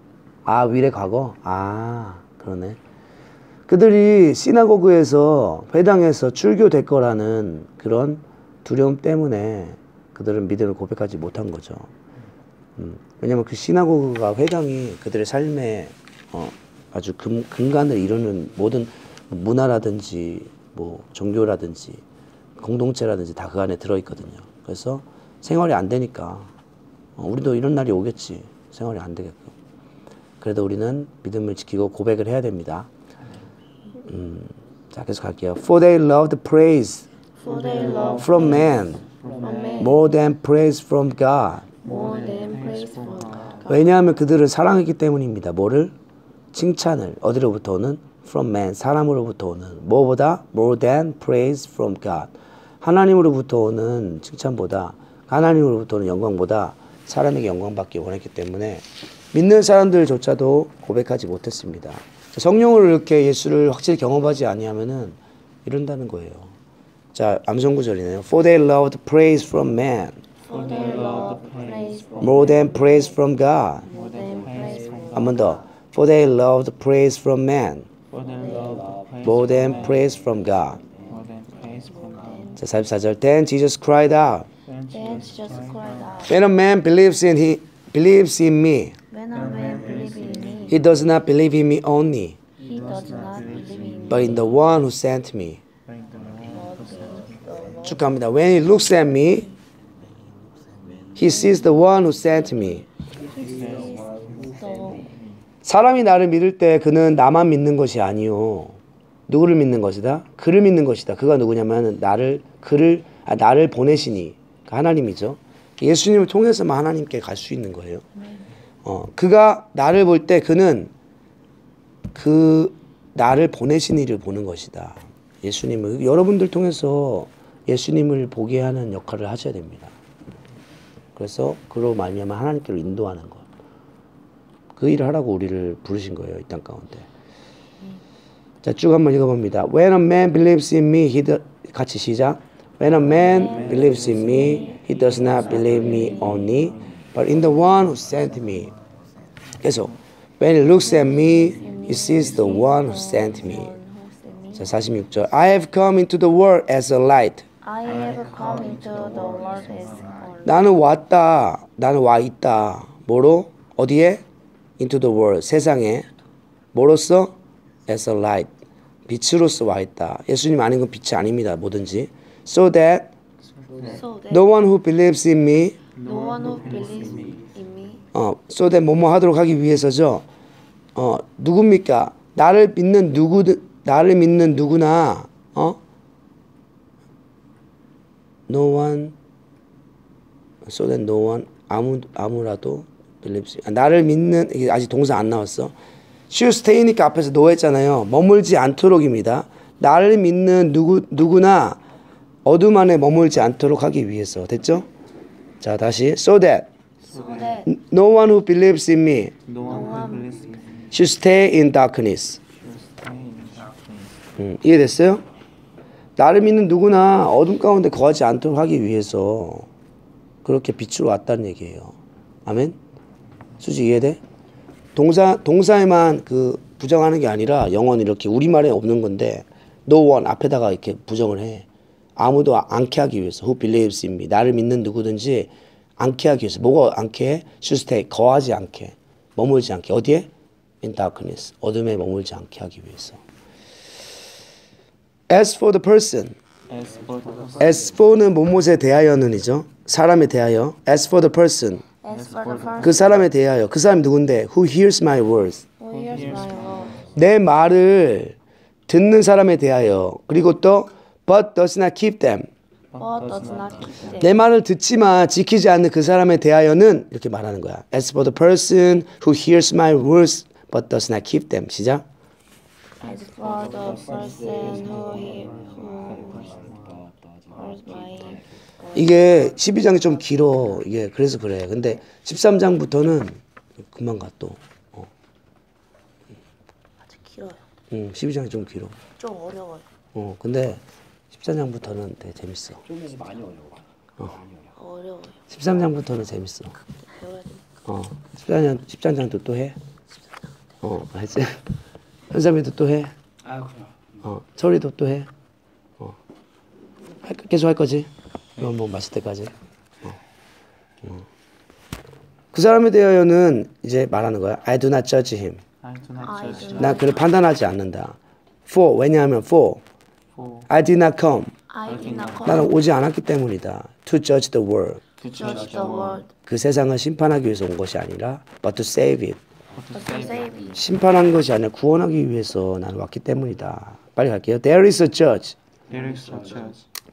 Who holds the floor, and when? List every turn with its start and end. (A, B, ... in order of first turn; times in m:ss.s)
0:00.4-0:02.8 A
0:03.7-0:11.9 A
0:12.8-0:22.0 A
0:22.6-0:26.5 A
0:27.2-0:29.5 A
0:30.4-0:32.9 A
0:34.1-0:37.1 A
0:37.4-0:38.7 B
0:37.8-0:39.8 C
0:38.2-0:39.0 A
0:39.4-0:40.0 B
0:39.8-0:41.7 A
0:41.8-0:43.9 B
0:41.8-0:43.7 C
0:43.6-0:45.9 A
0:46.5-1:06.5 A
1:07.1-1:10.2 A
1:10.4-1:13.2 B
1:10.5-1:12.2 C
1:12.2-1:13.9 A
1:13.8-1:15.6 B
1:13.9-1:15.3 C
1:15.1-1:17.9 A
1:18.1-1:20.0 C
1:18.4-1:18.9 B
1:19.2-1:20.8 A
1:21.1-1:22.2 C
1:21.7-1:22.6 B
1:22.6-1:24.5 A
1:24.6-1:26.2 C
1:24.9-1:26.4 B
1:26.3-1:29.0 A
1:29.1-1:30.8 B
1:29.5-1:30.7 C
1:30.7-1:32.4 A
1:32.6-1:34.4 B
1:34.1-1:35.6 A
1:35.9-1:37.1 C
1:36.5-1:38.1 B
1:37.8-1:39.5 A
1:41.2-1:42.8 A
1:41.2-1:41.8 B
1:43.2-1:45.1 B
1:43.4-1:44.5 C
1:45.6-1:58.0 A
1:58.2-1:58.5 B
1:58.8-2:00.9 A
2:02.1-2:09.9 A
2:11.2-2:13.4 A
2:14.8-2:17.1 A
2:18.6-2:28.7 A
2:23.1-2:26.5 B
2:23.4-2:24.7 C
2:29.6-2:33.7 A
2:30.7-2:34.8 B
2:34.5-2:37.4 A
2:37.6-2:40.7 B
2:40.4-2:44.2 A
2:44.8-2:46.1 A
2:46.7-2:47.3 A
2:47.9-2:48.5 A
2:49.1-2:53.1 A
2:53.6-2:54.0 C
2:53.8-2:54.5 B
2:54.3-2:55.8 A
2:56.0-2:57.4 C
2:56.0-2:58.0 B
2:58.1-3:00.2 A
3:00.9-3:05.8 A
3:08.5-3:09.1 A
3:10.6-3:15.7 A
3:16.3-3:21.8 A
3:22.4-3:24.8 A
3:25.6-3:26.7 A
3:27.1-3:27.6 C
3:27.1-3:27.7 B
3:27.6-3:29.3 A
3:29.4-3:30.9 C
3:29.6-3:30.3 B
3:30.9-3:32.4 A
3:32.6-3:34.1 C
3:34.4-3:35.2 A
3:36.2-3:39.7 A
3:40.4-3:41.9 A
3:42.4-3:42.8 A
3:43.6-3:44.2 A
3:45.0-3:51.6 A
3:52.2-4:00.3 A
4:00.8-4:03.2 A
4:05.3-4:06.4 A
4:06.7-4:07.7 C
4:07.6-4:11.8 A
4:12.0-4:13.2 B
4:12.2-4:13.0 C
4:12.8-4:15.6 A
4:15.8-4:17.0 B
4:15.9-4:17.0 C
4:17.1-4:18.4 A
4:18.9-4:22.5 A
4:22.9-4:24.4 B
4:23.0-4:24.0 C
4:24.2-4:32.0 A
4:33.0-4:36.6 B
4:33.8-4:34.8 C
4:36.2-4:36.8 C
4:37.5-4:39.1 B
4:38.9-4:43.4 A
4:43.9-4:45.1 A
4:47.1-4:47.6 B
4:47.9-4:49.0 A
4:49.2-4:49.8 B
4:50.1-4:52.8 A
4:54.7-4:55.4 B
4:55.5-4:56.8 A
4:57.0-4:57.6 B
4:57.8-4:59.8 A
5:00.8-5:01.6 A
5:02.3-5:03.1 A
5:04.2-5:05.3 A
5:07.2-5:09.5 A
5:12.5-5:15.6 A
5:15.8-5:17.0 C
5:16.2-5:17.2 B
5:16.8-5:18.2 A
5:18.7-5:19.8 A
5:20.3-5:20.7 C
5:20.7-5:21.5 A
5:21.7-5:22.7 B
5:21.9-5:22.6 C
5:22.4-5:25.0 A
5:25.2-5:26.2 C
5:25.2-5:26.3 B
5:26.4-5:29.4 A
5:29.7-5:30.5 C
5:29.9-5:30.8 B
5:30.7-5:35.6 A
5:35.9-5:36.8 C